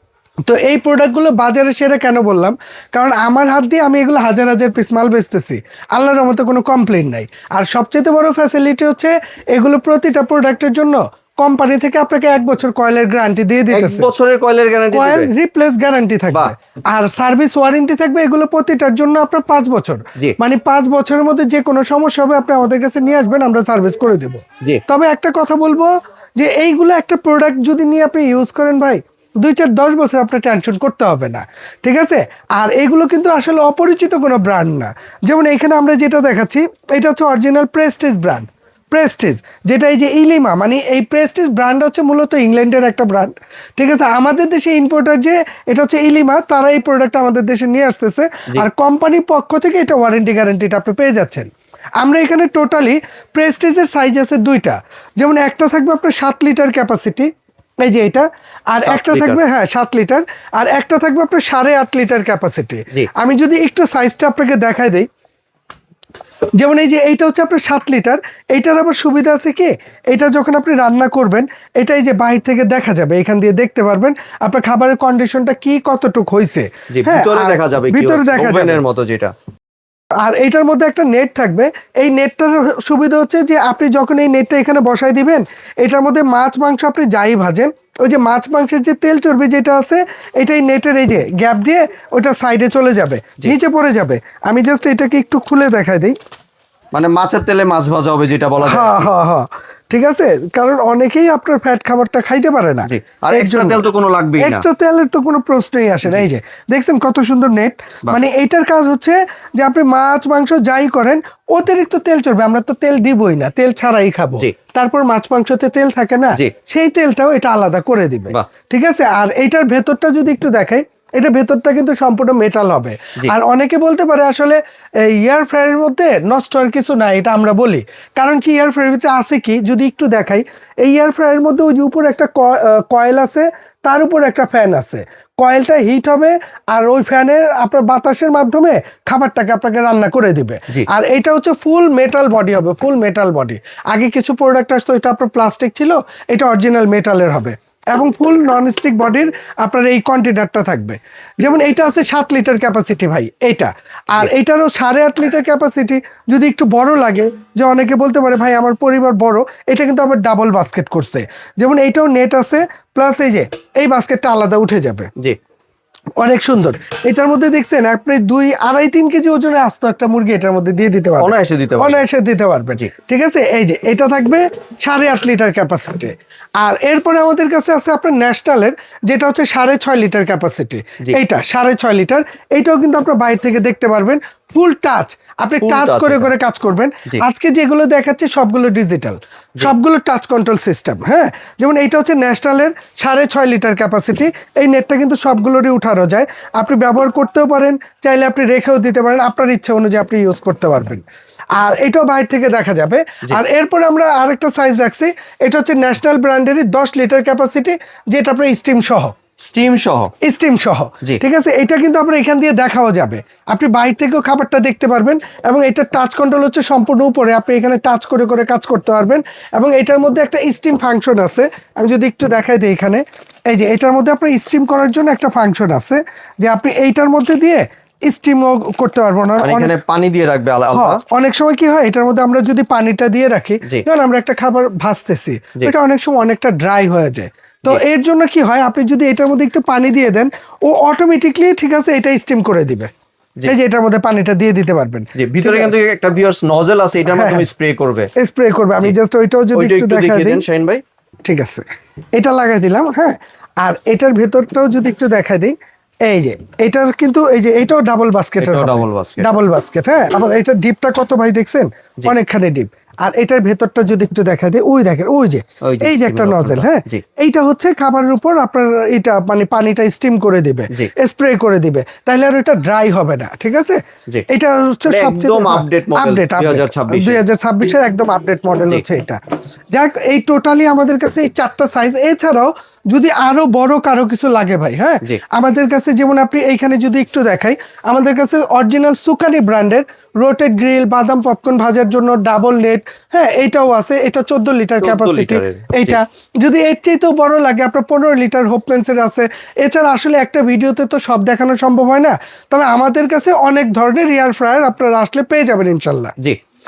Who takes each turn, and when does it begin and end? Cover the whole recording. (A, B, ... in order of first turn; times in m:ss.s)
0:00.4-0:14.1 A
0:13.7-0:15.3 B
0:14.9-0:57.3 A
0:57.8-1:05.1 A
0:58.9-0:59.4 B
1:06.6-1:18.8 A
1:16.9-1:19.3 B
1:20.2-1:36.2 A
1:36.9-1:39.1 B
1:38.6-1:43.8 A
1:42.9-1:44.6 B
1:44.4-2:45.1 A
2:46.2-3:21.0 A
2:51.2-2:52.0 B
3:05.6-3:06.3 B
3:21.6-3:29.1 A
3:29.4-3:30.1 B
3:30.2-3:49.7 A
3:49.4-3:51.0 B
3:50.7-4:02.9 A
4:03.5-4:05.8 A
4:05.2-4:08.1 B
4:07.1-4:07.5 A
4:08.2-4:10.4 A
4:09.6-4:10.8 B
4:11.2-4:11.6 A
4:12.2-4:39.2 A
4:18.4-4:19.3 B
4:25.6-4:27.0 B
4:34.9-4:37.2 B
4:39.7-5:06.1 A
4:54.8-4:56.0 B